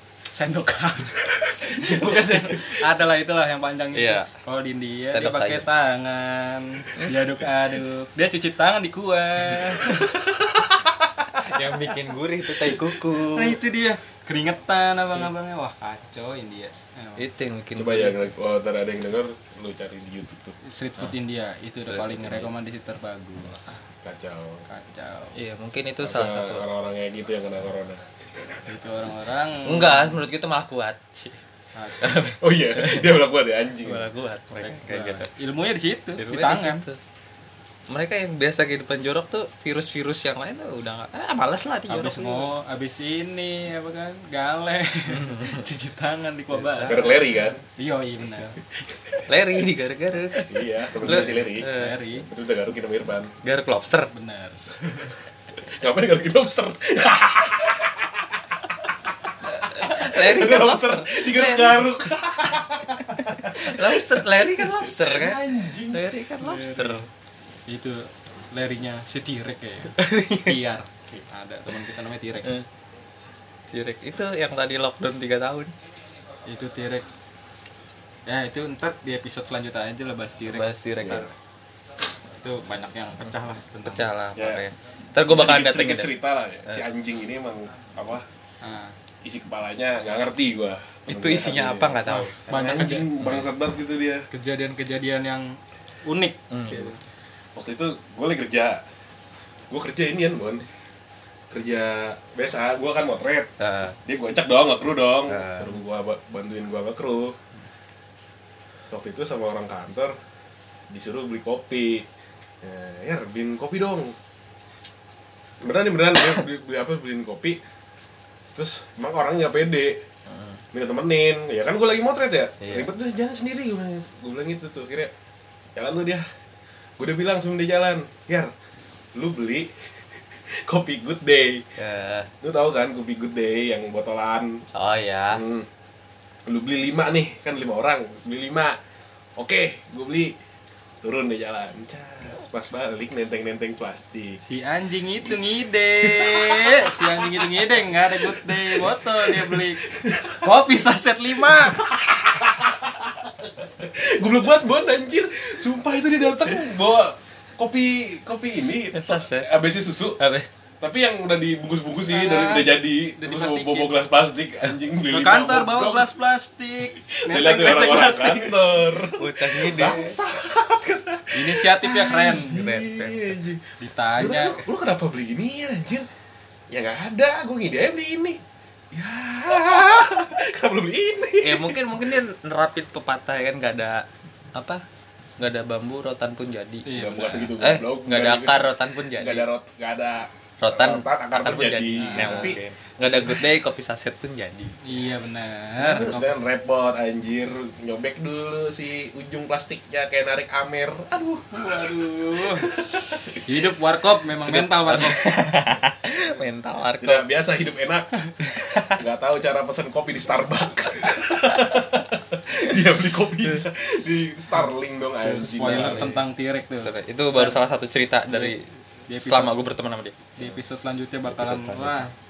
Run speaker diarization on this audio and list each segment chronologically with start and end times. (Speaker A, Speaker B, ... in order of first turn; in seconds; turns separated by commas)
Speaker A: 0.3-10.2, Speaker B: 1.2-2.8, Speaker C: 1.6-2.3, Speaker C: 3.9-4.3, Speaker C: 5.1-5.7, Speaker C: 6.9-7.3, Speaker C: 11.4-13.6, Speaker A: 13.3-17.2, Speaker C: 17.2-18.3, Speaker B: 17.8-20.6, Speaker A: 20.6-23.8, Speaker C: 21.8-22.5, Speaker B: 24.0-24.7, Speaker A: 24.7-25.4, Speaker C: 25.3-26.7, Speaker B: 26.0-28.1, Speaker A: 28.7-30.2, Speaker C: 29.6-31.4, Speaker A: 31.8-32.3, Speaker C: 32.0-33.1, Speaker B: 32.4-34.1, Speaker C: 33.8-35.3, Speaker A: 34.6-36.8, Speaker C: 36.2-37.0, Speaker C: 37.9-42.5, Speaker A: 41.9-48.6, Speaker C: 45.2-45.5, Speaker B: 46.8-47.6, Speaker C: 46.8-47.1, Speaker C: 49.3-52.0, Speaker B: 50.5-51.7, Speaker A: 51.0-52.3, Speaker B: 52.2-53.3, Speaker C: 53.4-54.1, Speaker A: 54.1-55.1, Speaker B: 55.6-58.4, Speaker C: 59.7-61.9, Speaker B: 59.7-66.0, Speaker C: 63.2-67.1, Speaker A: 66.4-67.1, Speaker A: 67.7-72.6, Speaker C: 70.0-70.6, Speaker C: 73.7-75.7, Speaker A: 76.5-77.1, Speaker A: 78.3-80.7, Speaker C: 80.5-81.3, Speaker B: 81.0-81.3, Speaker A: 82.4-84.1, Speaker C: 83.8-86.2, Speaker B: 84.4-84.6, Speaker B: 85.2-88.3, Speaker A: 88.6-89.0, Speaker B: 89.2-94.3, Speaker C: 91.1-93.5, Speaker A: 92.1-93.1, Speaker A: 94.3-97.0, Speaker C: 96.5-96.9, Speaker B: 97.5-98.8, Speaker B: 99.7-100.7, Speaker B: 101.5-103.5, Speaker C: 103.6-104.0, Speaker B: 104.0-107.4, Speaker C: 105.3-105.8, Speaker B: 108.9-110.2, Speaker B: 110.9-112.1, Speaker B: 112.6-114.2, Speaker B: 115.6-117.6, Speaker B: 118.5-120.1, Speaker B: 120.7-125.1, Speaker C: 122.6-122.9, Speaker B: 125.8-126.3, Speaker B: 127.0-128.5, Speaker B: 129.2-131.7, Speaker C: 131.8-132.3, Speaker B: 132.4-134.6, Speaker C: 134.7-135.4, Speaker B: 135.3-135.7, Speaker B: 136.5-138.8, Speaker B: 139.4-140.4, Speaker B: 141.0-144.4, Speaker A: 144.4-151.9, Speaker B: 146.0-147.5, Speaker B: 148.2-150.4, Speaker B: 151.6-160.2, Speaker C: 158.9-159.5, Speaker C: 160.2-160.5, Speaker B: 160.8-166.1, Speaker A: 162.1-162.8, Speaker C: 163.2-163.9, Speaker A: 165.1-168.9, Speaker B: 167.0-173.7, Speaker C: 169.1-170.2, Speaker A: 171.3-172.7, Speaker C: 172.5-173.4, Speaker A: 173.8-174.6, Speaker B: 174.2-176.1, Speaker B: 176.7-178.4, Speaker B: 178.9-181.8, Speaker C: 181.4-184.8, Speaker C: 185.4-189.5, Speaker A: 186.8-187.5, Speaker B: 186.9-192.6, Speaker C: 190.6-194.8, Speaker A: 192.0-192.6, Speaker A: 194.8-196.4, Speaker B: 195.8-203.4, Speaker A: 201.5-202.8, Speaker A: 203.3-205.6, Speaker C: 204.5-207.3, Speaker B: 207.0-208.1, Speaker C: 208.4-209.0, Speaker B: 208.9-216.2, Speaker A: 215.2-217.6, Speaker C: 215.5-216.2, Speaker C: 216.8-220.6, Speaker A: 219.1-219.6, Speaker A: 220.4-222.1, Speaker C: 221.2-222.0